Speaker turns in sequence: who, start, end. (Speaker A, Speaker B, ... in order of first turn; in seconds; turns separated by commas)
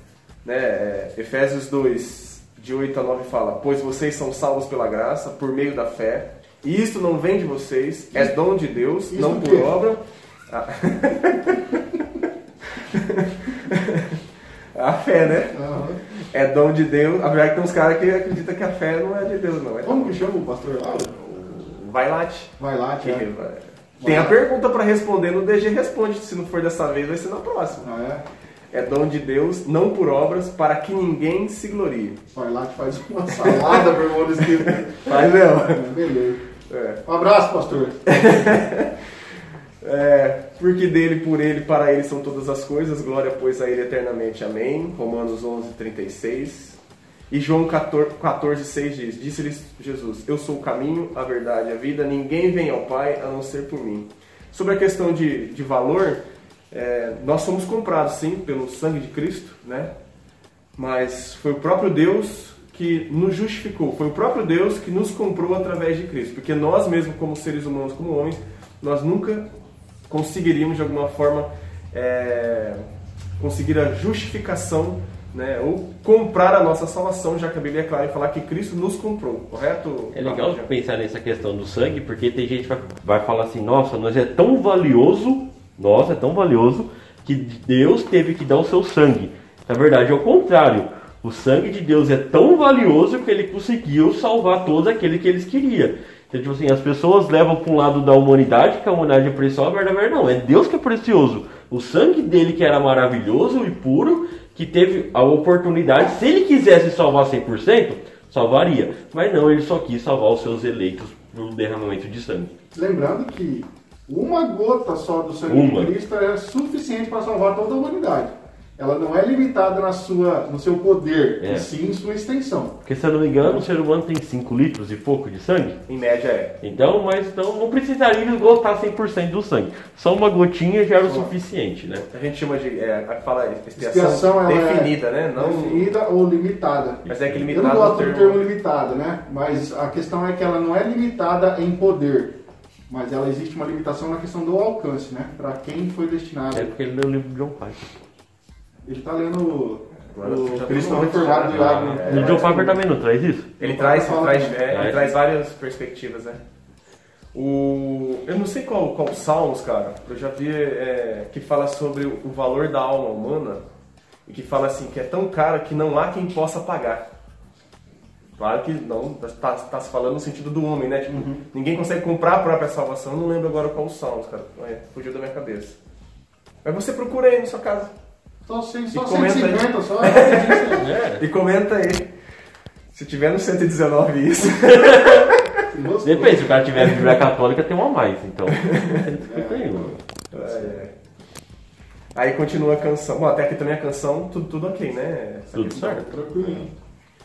Speaker A: 0.4-11.8, Speaker B: 9.1-9.8, Speaker A: 12.9-14.2, Speaker A: 14.8-20.2, Speaker B: 15.5-16.0, Speaker B: 19.8-21.2, Speaker A: 21.1-27.9, Speaker B: 22.6-23.3, Speaker B: 24.0-24.4, Speaker B: 27.8-28.2, Speaker A: 28.7-32.2, Speaker B: 32.3-36.4, Speaker A: 33.3-33.9, Speaker A: 34.4-35.9, Speaker A: 36.6-37.0, Speaker B: 37.0-38.1, Speaker A: 38.1-39.1, Speaker A: 39.8-59.9, Speaker A: 60.8-69.5, Speaker A: 70.1-72.8, Speaker A: 73.4-80.7, Speaker C: 80.1-112.5, Speaker B: 112.7-122.8, Speaker C: 115.5-115.9, Speaker C: 121.4-121.7, Speaker C: 122.8-125.8, Speaker A: 125.9-126.6, Speaker C: 126.6-132.1, Speaker B: 131.0-131.3, Speaker A: 132.1-135.9, Speaker B: 133.8-142.4, Speaker A: 137.1-138.5, Speaker C: 137.2-137.5, Speaker B: 142.9-146.7, Speaker C: 146.5-147.9, Speaker B: 148.8-152.8, Speaker A: 150.1-152.6, Speaker C: 151.4-153.5, Speaker A: 153.6-156.4, Speaker B: 153.6-154.6, Speaker C: 154.7-155.1, Speaker A: 157.3-163.6, Speaker A: 164.3-167.1, Speaker A: 168.4-175.8, Speaker B: 171.1-171.4, Speaker A: 176.6-177.9, Speaker B: 178.5-180.8, Speaker A: 178.9-182.1, Speaker C: 180.7-181.2, Speaker A: 182.9-185.5, Speaker C: 184.6-185.3, Speaker B: 185.7-186.6, Speaker C: 186.0-190.0, Speaker A: 186.7-187.2, Speaker A: 188.5-189.0, Speaker B: 189.2-190.8, Speaker A: 190.3-190.9, Speaker A: 192.2-196.7, Speaker C: 195.5-196.2, Speaker B: 196.1-196.7